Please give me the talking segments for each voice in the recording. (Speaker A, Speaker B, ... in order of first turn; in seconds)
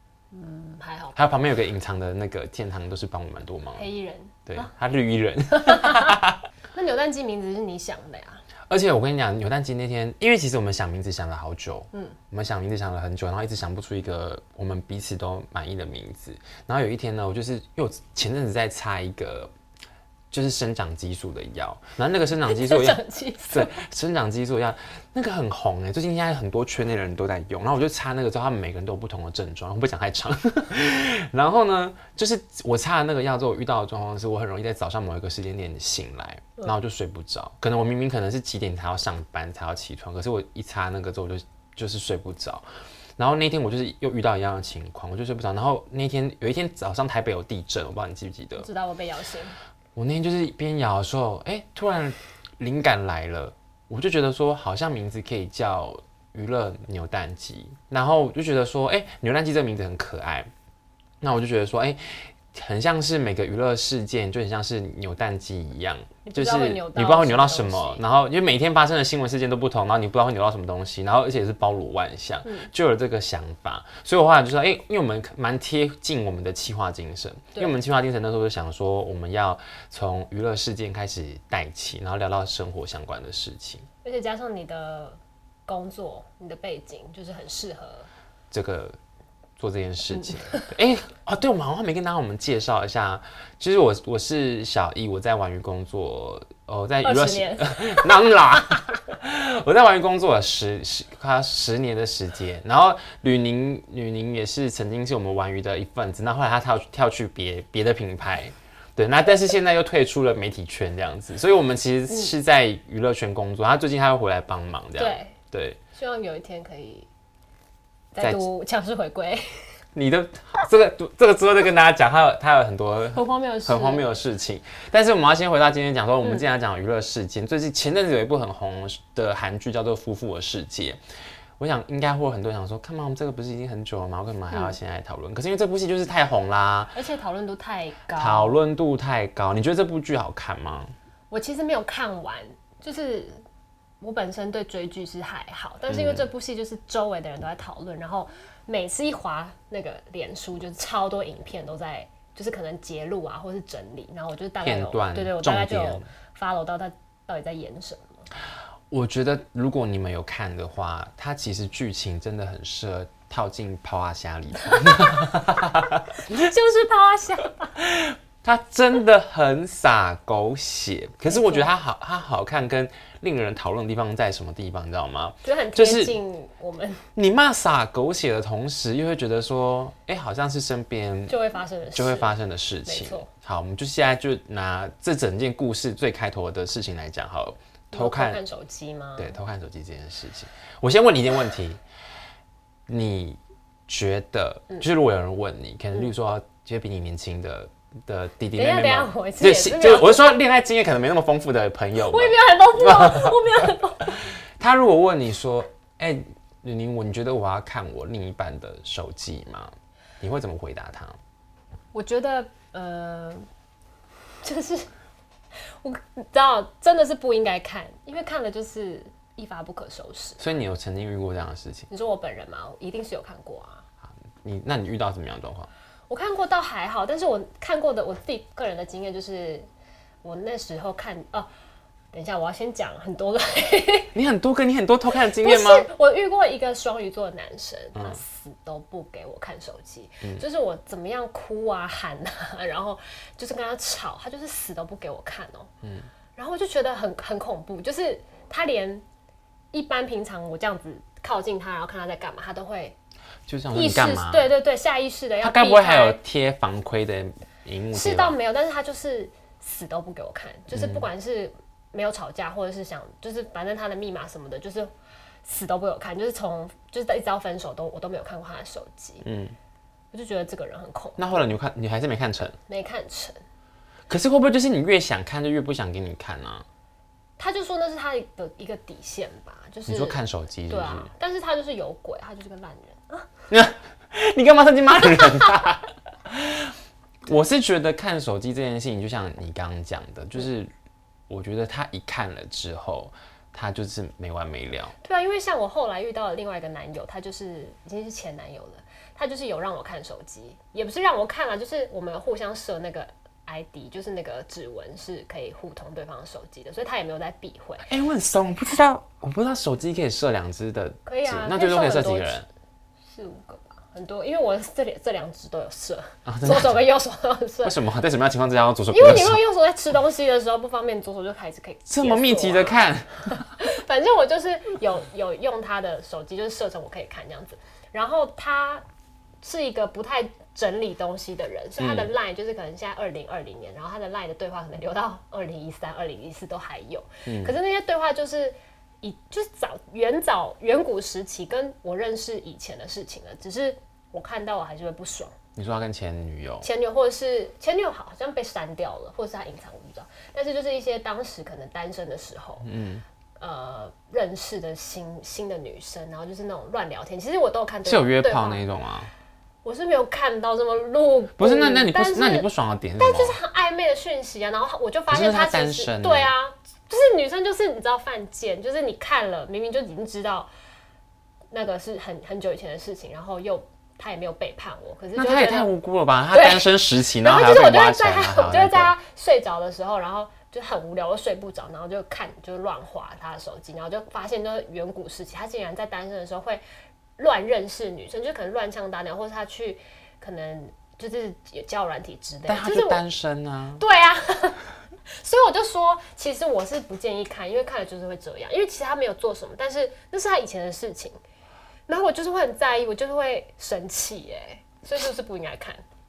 Speaker A: 0.3-1.2, 3.8-4.7, 5.5-6.2, 6.7-8.4, 11.9-12.2, 22.4-23.8, 48.6-49.6, 66.2-68.0, 72.4-72.7, 84.0-88.1, 97.0-98.3, 115.0-115.3, 115.9-117.1, 118.1-119.6, 123.1-124.2, 136.9-138.6, 141.3-143.4, 144.0-158.2, 164.8-165.3, 166.2-167.7, 171.3-171.7, 175.4-177.0, 181.3-182.3, 182.8-183.3, 187.9-189.3, 198.5-200.3, 201.9-204.2, 211.9-213.4, 214.4-214.9, 215.8-220.5, 221.9-223.8, 226.1-229.7, 230.2-231.5, 232.1-234.1, 235.3-245.7, 246.3-249.0, 249.7-252.9, 253.7-256.2, 257.9-264.9, 265.4-269.2, 270.1-271.5, 272.7-273.4, 277.4-283.3, 285.2-285.5, 295.0-307.9, 311.1-312.4, 313.1-317.8, 318.9-328.8, 329.4-345.3, 346.6-352.7, 353.4-358.6, 359.6-362.5, 363.0-370.5, 371.5-375.7, 376.3-386.6, 387.2-393.0, 393.8-401.1, 401.9-405.8
Speaker B: 1.1-3.9, 4.5-6.4, 8.7-19.5, 20.3-42.6, 43.2-48.7, 49.9-60.5, 61.2-62.0, 62.5-83.8, 88.5-89.0, 89.6-115.8, 118.2-118.4, 119.9-131.0, 131.6-137.0, 138.1-140.9, 145.9-146.3, 154.6-156.1, 158.9-166.5, 167.8-176.2, 177.2-181.3, 181.9-188.4, 189.2-191.8, 192.9-203.7, 204.6-211.2, 220.4-221.9, 224.4-225.7, 234.1-235.9, 237.9-238.2, 253.5-254.5, 255.4-258.4, 260.7-261.0, 269.2-269.5, 271.2-272.6, 274.1-276.6, 279.9-281.1, 283.5-286.7, 287.2-290.7, 291.3-294.9, 307.8-312.5, 316.2-316.8, 317.6-319.4, 321.9-323.3, 331.8-332.1, 337.2-337.5, 345.6-346.7, 352.6-353.0, 357.8-359.1, 361.4-363.4, 365.1-366.3, 375.1-378.9, 392.5-393.8